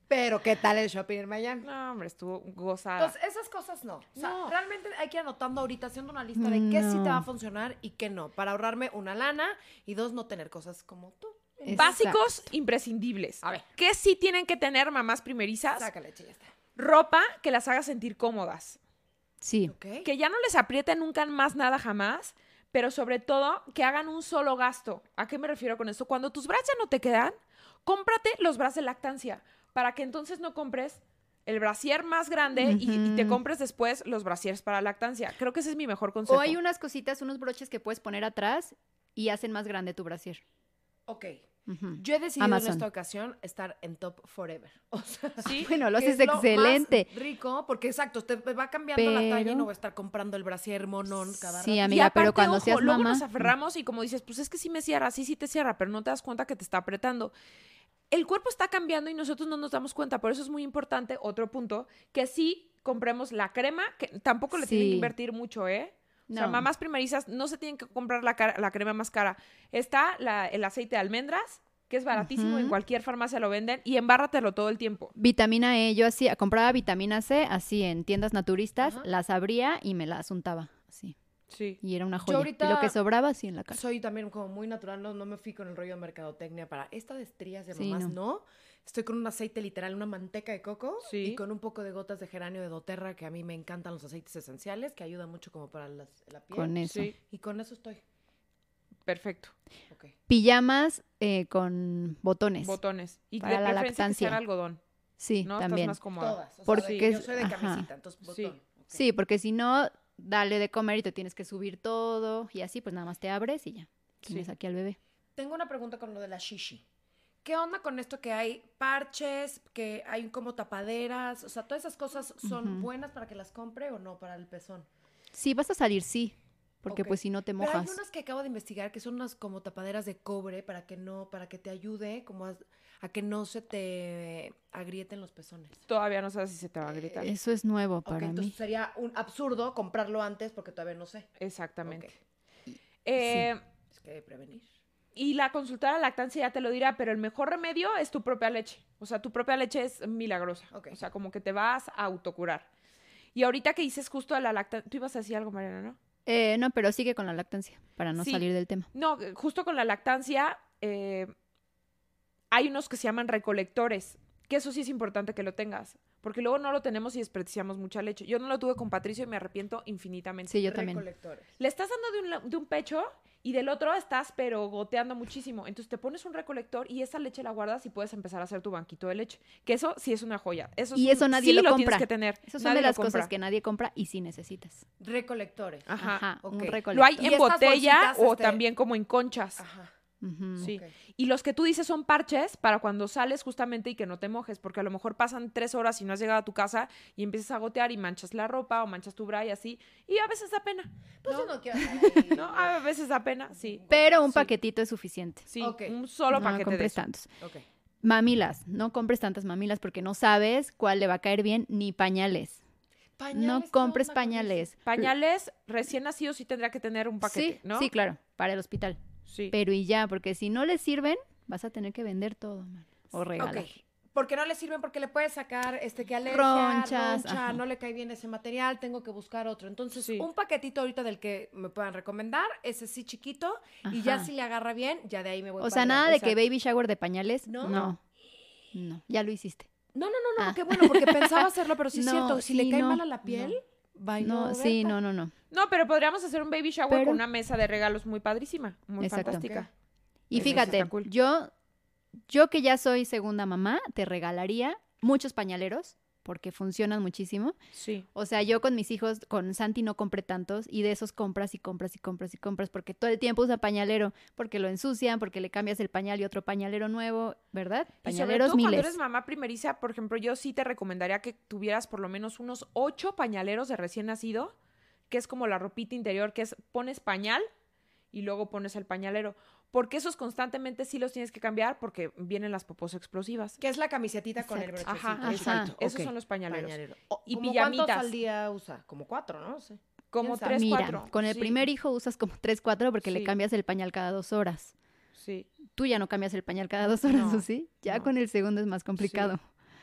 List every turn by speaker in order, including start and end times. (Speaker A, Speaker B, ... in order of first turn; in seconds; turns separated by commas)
Speaker A: 0.1-1.7, Speaker B: 1.6-3.1, Speaker A: 3.0-12.0, Speaker B: 4.2-4.5, Speaker C: 6.4-7.3, Speaker C: 11.7-12.2, Speaker B: 11.7-15.9, Speaker A: 15.8-16.5, Speaker B: 16.8-18.8, Speaker C: 19.4-19.7, Speaker A: 19.7-20.1, Speaker B: 20.0-36.6, Speaker C: 32.6-33.4, Speaker C: 36.3-40.4, Speaker A: 41.1-41.4, Speaker C: 41.7-42.9, Speaker A: 42.0-52.1, Speaker B: 45.4-45.7, Speaker C: 45.5-47.1, Speaker C: 49.0-49.7, Speaker C: 51.5-53.5, Speaker B: 51.9-57.3, Speaker B: 58.1-75.1, Speaker C: 64.5-65.1, Speaker C: 66.3-66.7, Speaker C: 72.1-72.8, Speaker C: 75.2-81.2, Speaker A: 78.8-79.1, Speaker B: 81.5-81.8, Speaker C: 81.8-83.8, Speaker A: 82.2-83.0, Speaker A: 83.7-98.0, Speaker C: 87.7-88.2, Speaker B: 91.1-91.4, Speaker C: 96.5-97.1, Speaker B: 96.8-97.2, Speaker B: 99.1-99.5, Speaker C: 100.3-102.8, Speaker B: 102.6-104.8, Speaker C: 103.4-104.4, Speaker C: 105.2-106.0, Speaker B: 105.4-107.1, Speaker A: 106.2-109.0, Speaker C: 106.7-107.9, Speaker B: 108.3-108.5, Speaker C: 108.9-115.0, Speaker B: 114.2-114.5, Speaker A: 115.4-116.8, Speaker A: 117.4-124.9, Speaker C: 122.4-122.9, Speaker C: 125.3-128.0, Speaker A: 126.9-135.8, Speaker B: 135.9-137.3, Speaker A: 136.9-137.3, Speaker C: 137.2-138.6, Speaker A: 138.1-141.3, Speaker B: 141.4-142.1, Speaker A: 141.8-142.1, Speaker C: 142.7-143.5, Speaker B: 143.1-143.6, Speaker A: 143.9-144.7, Speaker B: 145.2-152.7, Speaker A: 150.7-151.0, Speaker B: 153.3-156.0, Speaker C: 156.3-158.9, Speaker B: 158.2-161.3, Speaker B: 162.5-170.6, Speaker C: 170.5-171.0, Speaker A: 170.7-171.5, Speaker B: 171.6-183.3, Speaker C: 180.9-184.8, Speaker A: 185.0-185.9, Speaker B: 185.9-186.2, Speaker C: 186.0-187.3, Speaker A: 186.4-188.6, Speaker B: 186.9-189.6, Speaker A: 189.6-189.9, Speaker C: 190.2-190.7, Speaker A: 190.6-190.9, Speaker B: 190.6-201.5, Speaker A: 201.2-202.8, Speaker B: 202.3-203.8, Speaker A: 203.6-204.5, Speaker C: 203.9-205.4, Speaker B: 205.5-207.0, Speaker A: 205.6-206.0, Speaker C: 206.3-207.3, Speaker A: 207.4-207.7, Speaker C: 208.0-212.6, Speaker A: 213.2-214.7, Speaker C: 213.3-215.1, Speaker B: 214.9-217.9, Speaker C: 217.2-219.0, Speaker B: 219.3-219.5, Speaker C: 219.5-223.7, Speaker A: 223.4-236.3, Speaker C: 226.3-227.6, Speaker B: 230.0-230.3, Speaker C: 233.8-234.3, Speaker C: 235.6-238.0, Speaker B: 236.1-236.4, Speaker A: 237.4-237.9, Speaker C: 238.7-239.7, Speaker A: 239.9-245.0, Speaker C: 240.4-243.6, Speaker C: 244.2-245.3, Speaker B: 245.5-249.7, Speaker C: 246.9-247.2, Speaker C: 249.0-249.4, Speaker A: 249.3-249.7, Speaker C: 250.3-251.5, Speaker B: 250.3-251.1, Speaker A: 250.4-250.8, Speaker C: 252.3-257.6, Speaker B: 257.7-258.1, Speaker C: 258.1-269.0, Speaker B: 268.1-274.5, Speaker B: 275.1-277.5, Speaker B: 278.1-283.6, Speaker A: 283.6-290.6, Speaker C: 284.4-285.7, Speaker B: 284.9-288.1, Speaker B: 290.1-291.7, Speaker C: 290.4-294.7, Speaker B: 293.1-293.3, Speaker B: 295.2-295.5, Speaker C: 295.7-299.4, Speaker B: 297.1-298.1, Speaker B: 299.0-299.3